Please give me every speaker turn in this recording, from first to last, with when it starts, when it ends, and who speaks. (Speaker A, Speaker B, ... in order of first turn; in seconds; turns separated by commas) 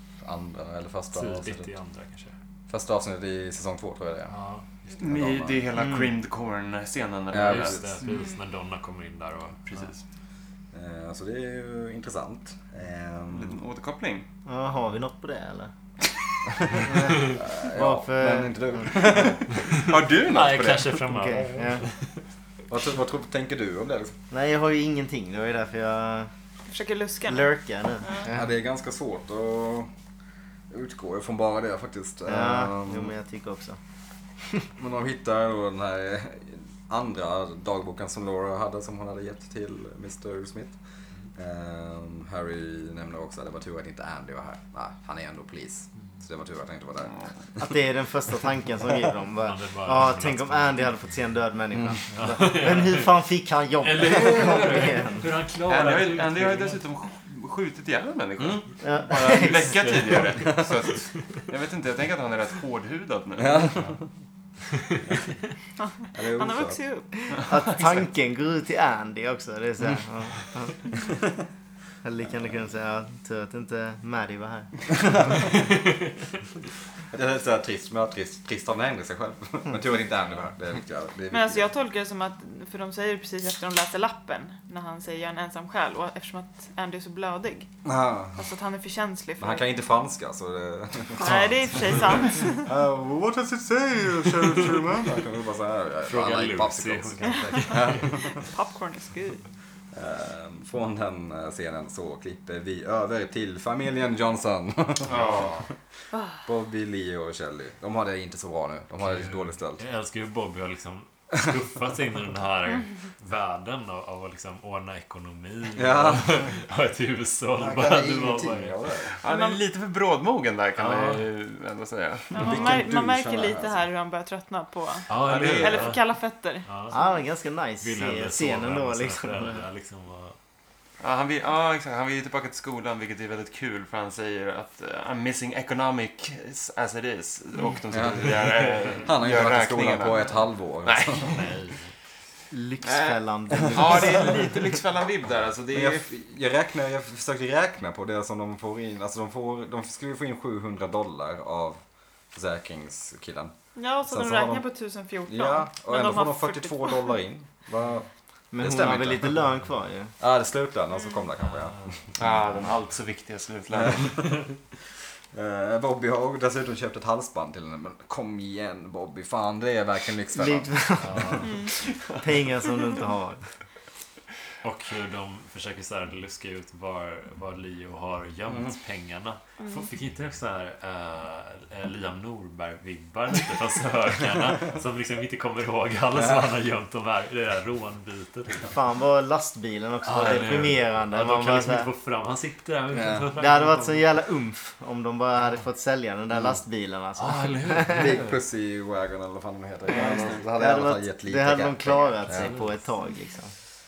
Speaker A: 0.2-1.7, Speaker B: 1.1-2.3, Speaker A: 2.7-4.3, Speaker B: 4.3-5.0, Speaker C: 5.0-7.9, Speaker A: 5.0-5.7, Speaker D: 5.8-6.1, Speaker A: 7.3-7.9, Speaker B: 7.4-9.9, Speaker E: 8.1-8.4, Speaker C: 9.7-10.0, Speaker A: 10.7-13.6, Speaker C: 13.3-14.3, Speaker D: 14.5-15.7, Speaker A: 16.7-19.5, Speaker D: 16.8-19.0, Speaker C: 19.6-21.0, Speaker B: 20.2-22.2, Speaker D: 21.1-21.8, Speaker A: 22.7-24.1, Speaker D: 24.3-26.3, Speaker E: 26.7-28.3, Speaker D: 27.3-28.5, Speaker A: 28.3-29.9, Speaker A: 30.7-33.1, Speaker D: 32.3-33.8, Speaker A: 34.8-40.8, Speaker A: 41.4-47.7, Speaker D: 47.6-55.3, Speaker B: 49.5-50.9, Speaker B: 52.1-53.1, Speaker B: 53.8-56.8, Speaker C: 55.7-63.8, Speaker D: 58.8-59.7, Speaker B: 59.3-60.5, Speaker A: 60.4-60.7, Speaker A: 63.4-64.0, Speaker E: 65.8-67.4, Speaker A: 66.1-66.8, Speaker D: 67.3-70.9, Speaker C: 67.7-68.0, Speaker D: 72.0-74.7, Speaker A: 75.0-75.8, Speaker A: 77.1-81.7, Speaker E: 81.3-87.7, Speaker A: 87.8-88.5, Speaker E: 88.4-89.7, Speaker A: 89.4-98.3, Speaker E: 91.2-92.7, Speaker B: 91.2-92.3, Speaker B: 96.0-98.2, Speaker E: 97.3-99.4, Speaker A: 99.9-105.6, Speaker B: 105.1-105.7, Speaker C: 105.1-105.6, Speaker E: 106.1-106.4, Speaker A: 106.5-109.8, Speaker B: 109.0-118.8, Speaker A: 115.8-116.6, Speaker A: 117.6-119.2, Speaker C: 119.2-122.5, Speaker E: 119.2-119.7, Speaker B: 120.8-121.3, Speaker E: 122.3-126.7, Speaker A: 122.4-123.8, Speaker B: 125.1-126.0, Speaker C: 125.2-126.0, Speaker B: 126.7-127.0, Speaker D: 126.9-129.6, Speaker B: 127.8-130.4, Speaker C: 131.0-140.3, Speaker A: 137.9-138.4, Speaker A: 139.0-141.4, Speaker C: 140.8-141.5, Speaker B: 141.3-141.9, Speaker D: 142.5-144.5, Speaker C: 142.8-143.2, Speaker C: 143.7-146.1, Speaker A: 145.7-151.8, Speaker A: 152.3-153.5, Speaker E: 153.8-157.2, Speaker A: 154.1-154.7, Speaker A: 155.3-159.4, Speaker D: 158.5-160.1, Speaker A: 160.2-162.0, Speaker B: 161.5-162.7, Speaker C: 162.2-164.4, Speaker A: 163.7-164.4, Speaker A: 165.3-170.7, Speaker D: 170.4-171.5, Speaker B: 171.0-171.6, Speaker E: 171.4-171.7, Speaker D: 172.2-173.4, Speaker B: 174.6-188.7, Speaker E: 179.6-179.8, Speaker A: 186.2-186.5, Speaker D: 188.7-191.9, Speaker B: 190.1-194.0, Speaker A: 192.9-193.3, Speaker D: 193.4-198.1, Speaker B: 197.2-198.4, Speaker A: 197.9-202.5, Speaker C: 200.0-200.3, Speaker D: 200.5-203.5, Speaker B: 202.3-202.7